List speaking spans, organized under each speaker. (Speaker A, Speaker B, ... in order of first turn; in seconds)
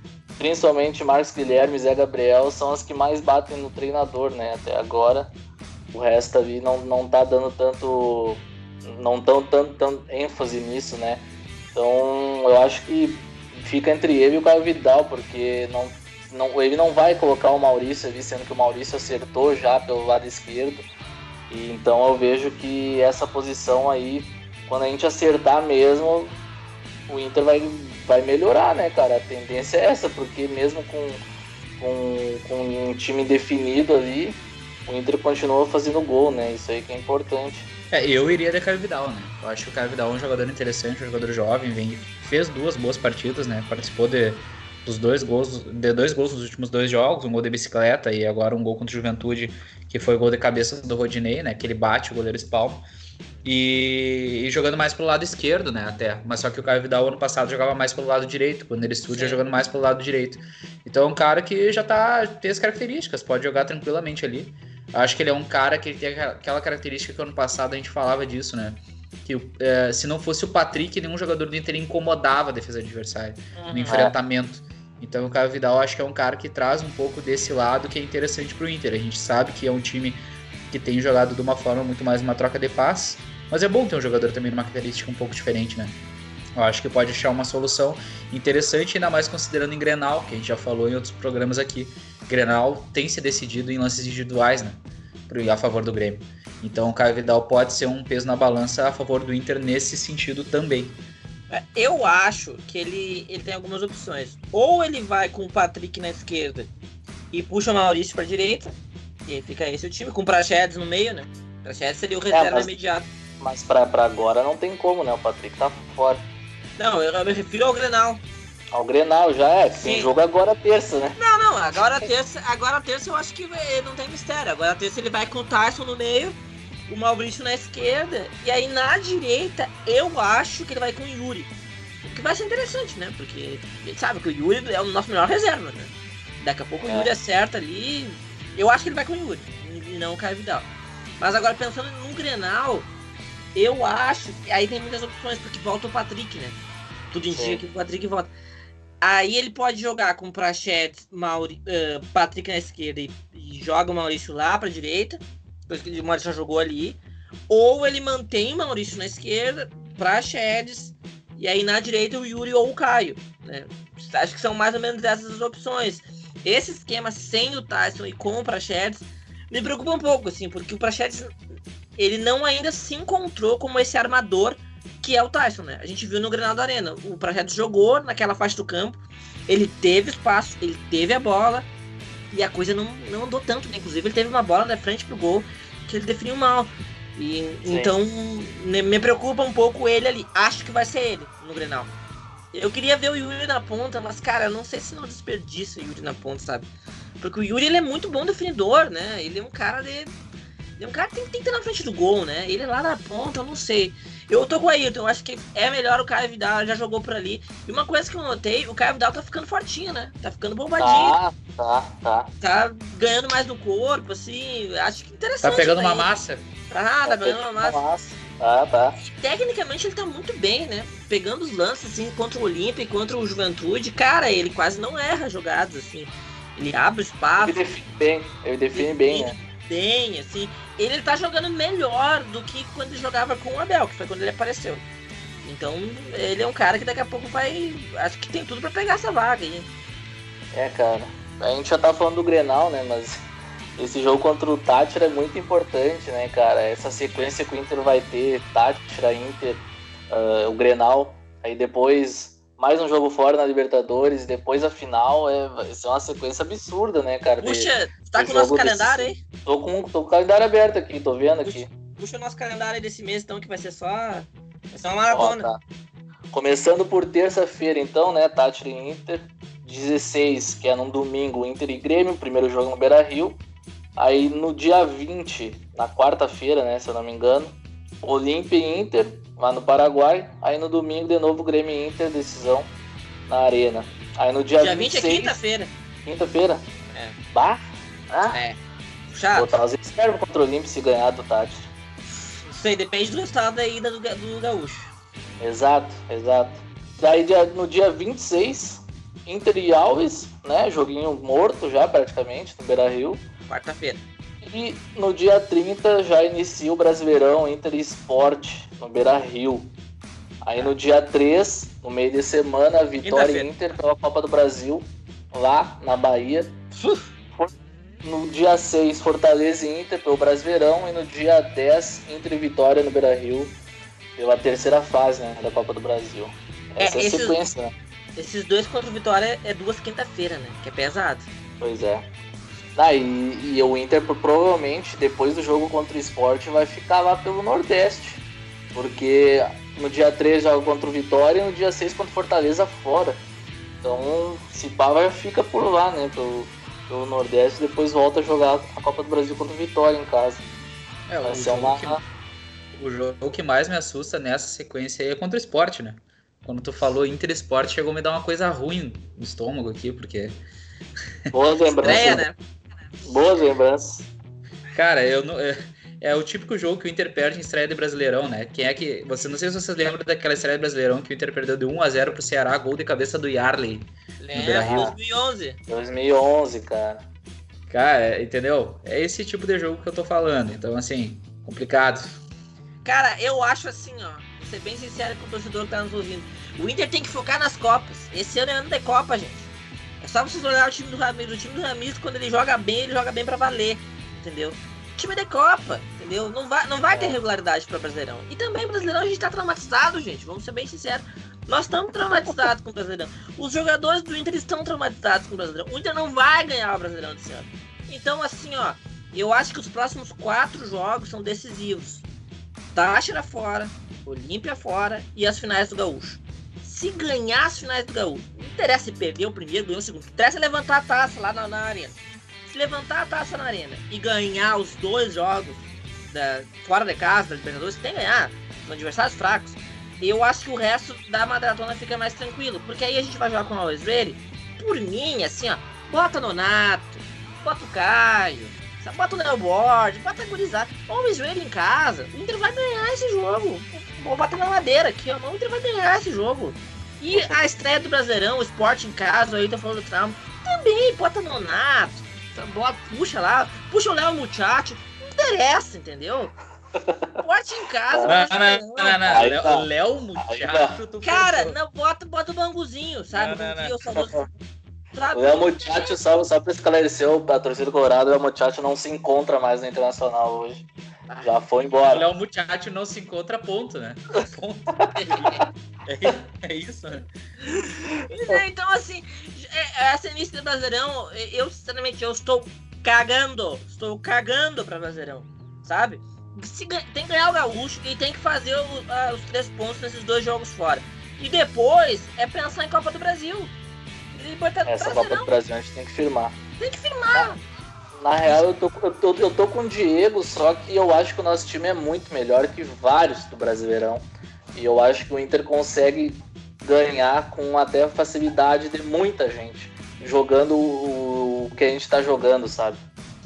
Speaker A: 0.4-5.3, 5.9-20.9, 21.5-26.4, 27.1-31.2, 31.8-37.7, 73.9-74.2, 112.3-112.7, 113.4-116.2, 118.7-121.2, 136.9-137.1, 147.3-147.6, 187.7-187.9, 210.8-212.3, 217.1-219.0, 227.4-229.4, 240.5-243.2, 243.8-261.7, 265.1-265.6, 266.3-273.4, 274.0-282.7, 283.3-285.4, 286.1-286.7, 287.3-288.4, 289.3-291.7, 295.4-303.3, 304.4-309.8, 310.4-316.5, 318.0-323.6, 324.2-327.7, 331.6-332.1, 332.8-338.2, 338.8-343.2, 343.8-350.5, 351.2-352.0, 361.3-362.2, 363.0-364.1, 374.7-374.9, 375.7-377.0, 396.9-397.2, 447.1-447.4, 456.8-457.2, 457.9-458.2, 459.1-459.7, 460.2-460.8, 464.0-464.3, 465.1-470.7, 471.2-472.1, 494.7-496.4, 497.9-512.8
Speaker B: 37.9-52.9, 53.4-86.0, 86.6-101.0, 215.4-216.5, 351.1-352.0, 352.7-360.4, 364.7-374.9, 377.7-382.1, 458.1-461.6, 463.1-463.8, 471.9-475.3, 475.9-477.1
Speaker C: 59.1-59.4, 73.5-74.0, 101.5-106.7, 107.3-113.1, 116.8-118.2, 119.7-120.1, 121.2-126.4, 126.9-131.5, 132.0-140.7, 141.2-142.9, 143.6-146.6, 147.1-148.3, 149.0-171.3, 172.0-179.0, 179.5-181.7, 182.3-191.9, 192.5-196.7, 197.2-200.1, 200.8-211.2, 212.4-216.1, 216.7-217.8, 219.0-227.6, 228.7-234.8, 235.4-239.7, 257.4-259.2, 261.4-265.5, 284.6-285.7, 288.3-289.6, 292.5-294.9, 303.5-304.0, 313.0-313.5, 316.8-317.0, 326.8-327.4, 328.2-331.3, 361.8-362.4, 374.2-375.6, 382.8-389.5, 390.0-412.1, 412.7-422.0, 422.5-456.3, 457.2-459.2, 461.0-464.2, 464.9-466.0, 474.9-475.4, 477.5-493.5, 494.1-495.3, 496.6-497.4